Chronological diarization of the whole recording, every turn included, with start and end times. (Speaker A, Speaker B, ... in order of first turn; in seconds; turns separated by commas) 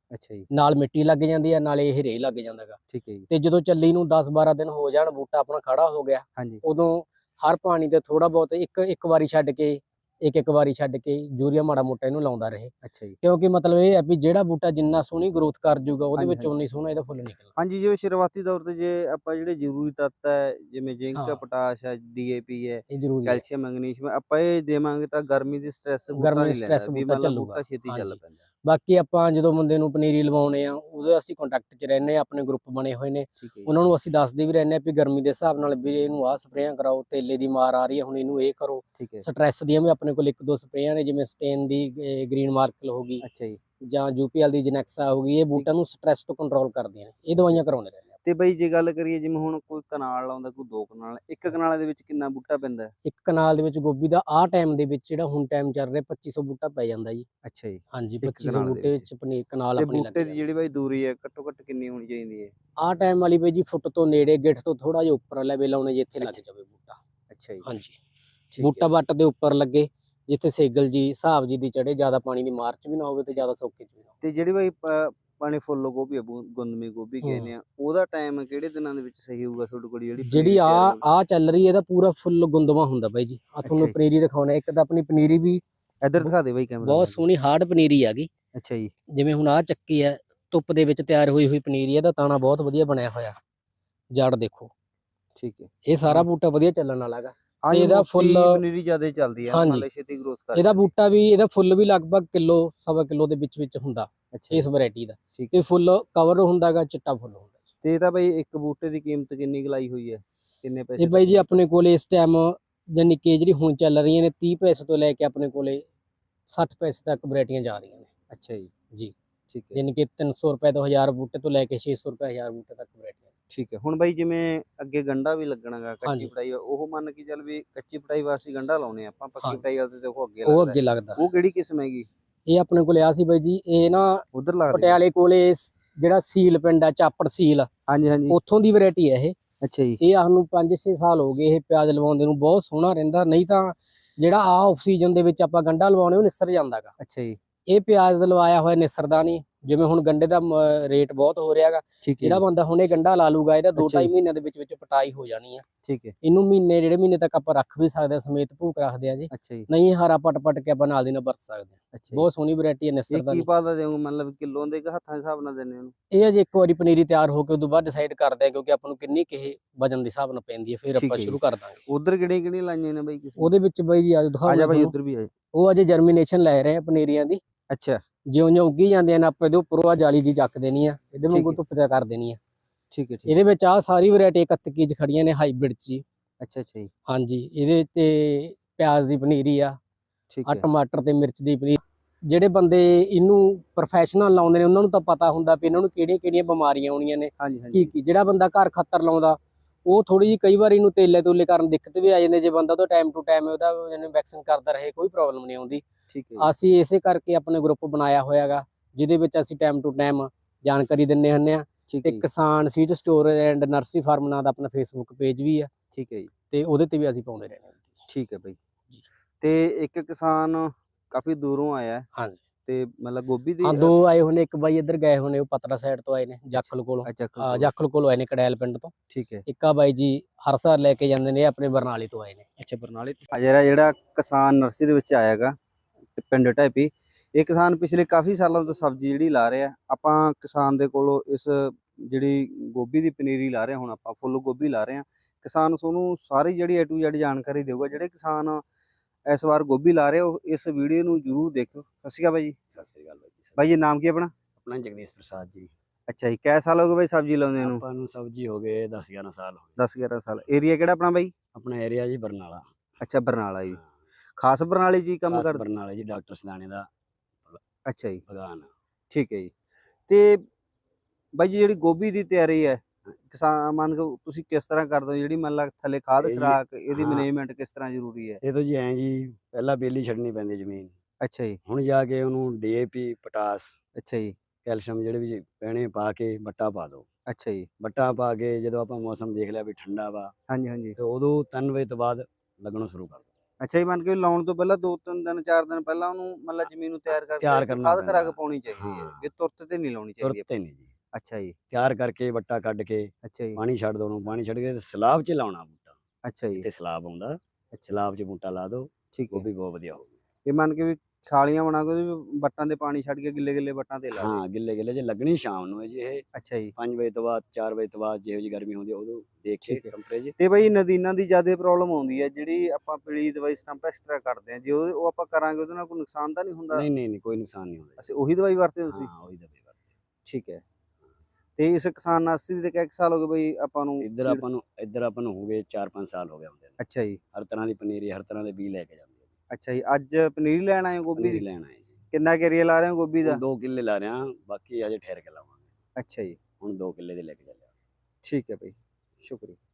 Speaker A: 0.1-0.5, Speaker B: 0.5-17.5, Speaker A: 2.9-3.3, Speaker A: 12.8-13.2, Speaker A: 16.2-16.5, Speaker A: 17.6-28.4, Speaker B: 21.1-21.4, Speaker B: 22.9-23.4, Speaker B: 26.2-43.2, Speaker A: 33.4-33.7, Speaker A: 39.0-39.2, Speaker A: 43.2-43.6, Speaker B: 43.9-48.1, Speaker A: 47.4-47.6, Speaker A: 48.2-52.9, Speaker B: 53.0-57.3, Speaker A: 57.5-59.0, Speaker B: 57.9-60.4, Speaker A: 59.8-62.5, Speaker B: 62.8-67.0, Speaker A: 67.3-67.7, Speaker B: 67.7-68.0, Speaker A: 68.5-68.9, Speaker B: 68.6-74.1, Speaker A: 74.2-81.0, Speaker B: 77.2-77.5, Speaker B: 80.3-85.6, Speaker A: 83.6-84.0, Speaker A: 86.0-87.2, Speaker B: 86.8-88.3, Speaker A: 88.5-88.9, Speaker B: 89.1-93.4, Speaker B: 94.1-94.7, Speaker A: 95.4-96.3, Speaker B: 95.9-98.6, Speaker A: 97.6-100.9, Speaker B: 99.5-99.9, Speaker B: 100.5-107.6, Speaker A: 104.3-104.7, Speaker A: 107.8-111.6, Speaker B: 111.0-115.8, Speaker B: 116.5-118.1, Speaker A: 118.3-118.7, Speaker A: 119.5-119.8, Speaker B: 119.7-123.3, Speaker A: 123.5-132.1, Speaker B: 126.0-126.3, Speaker B: 130.5-131.2, Speaker B: 132.5-137.7, Speaker A: 134.3-135.0, Speaker A: 137.9-138.4, Speaker B: 138.3-139.3, Speaker A: 139.6-140.0, Speaker B: 140.0-146.9, Speaker A: 147.0-147.4, Speaker B: 147.7-155.7, Speaker A: 152.0-152.4, Speaker A: 153.8-154.1, Speaker A: 155.8-156.2, Speaker B: 156.2-163.5, Speaker A: 159.3-159.7, Speaker A: 161.9-162.2, Speaker A: 163.1-165.9, Speaker B: 166.1-171.8, Speaker A: 171.0-171.4, Speaker A: 171.9-173.5, Speaker B: 173.4-174.9, Speaker A: 174.5-175.3, Speaker B: 175.5-177.4, Speaker A: 177.7-178.0, Speaker B: 178.3-182.4, Speaker A: 181.3-181.6, Speaker A: 182.9-183.3, Speaker B: 183.3-186.0, Speaker A: 186.4-186.9, Speaker B: 187.1-189.8, Speaker A: 190.3-190.7, Speaker B: 190.5-205.8, Speaker A: 197.4-197.9, Speaker A: 206.1-206.5, Speaker B: 206.4-215.7, Speaker A: 211.9-212.3, Speaker A: 215.9-216.3, Speaker B: 216.5-217.8, Speaker A: 218.1-218.6, Speaker A: 219.4-222.1, Speaker A: 222.7-223.9, Speaker B: 223.6-228.9, Speaker A: 226.6-227.7, Speaker A: 229.1-229.4, Speaker B: 229.5-232.5, Speaker A: 232.6-235.6, Speaker A: 236.2-248.6, Speaker A: 249.3-252.6, Speaker C: 252.7-253.6, Speaker A: 253.6-254.3, Speaker C: 254.6-255.7, Speaker A: 256.1-257.8, Speaker C: 257.6-259.8, Speaker A: 259.8-261.3, Speaker C: 261.5-262.6, Speaker A: 263.0-263.8, Speaker A: 264.4-265.7, Speaker C: 265.3-266.9, Speaker A: 267.9-268.2, Speaker C: 268.3-268.7, Speaker A: 269.1-269.5, Speaker A: 270.1-270.4, Speaker A: 271.4-278.4, Speaker C: 276.2-277.3, Speaker C: 278.4-280.9, Speaker A: 281.2-281.6, Speaker C: 281.7-283.8, Speaker A: 284.0-284.4, Speaker C: 284.6-287.1, Speaker A: 287.3-287.7, Speaker C: 287.8-290.3, Speaker A: 290.5-291.0, Speaker C: 291.0-293.2, Speaker A: 293.6-300.4, Speaker C: 297.4-299.3, Speaker C: 300.2-300.9, Speaker A: 301.1-301.6, Speaker C: 301.7-306.0, Speaker A: 303.2-303.6, Speaker A: 306.3-306.7, Speaker C: 306.6-310.1, Speaker A: 309.1-309.4, Speaker A: 310.5-314.4, Speaker C: 314.2-316.2, Speaker A: 316.4-316.7, Speaker C: 316.8-320.4, Speaker A: 319.6-326.9, Speaker C: 326.7-328.0, Speaker A: 328.0-329.1, Speaker C: 328.9-329.7, Speaker A: 330.3-330.6, Speaker A: 331.6-334.5, Speaker C: 334.0-336.8, Speaker A: 336.8-337.2, Speaker C: 337.3-339.2, Speaker A: 339.5-341.4, Speaker C: 341.2-341.9, Speaker A: 342.1-343.4, Speaker C: 343.2-345.6, Speaker A: 346.0-346.4, Speaker C: 346.6-347.7, Speaker A: 348.2-349.6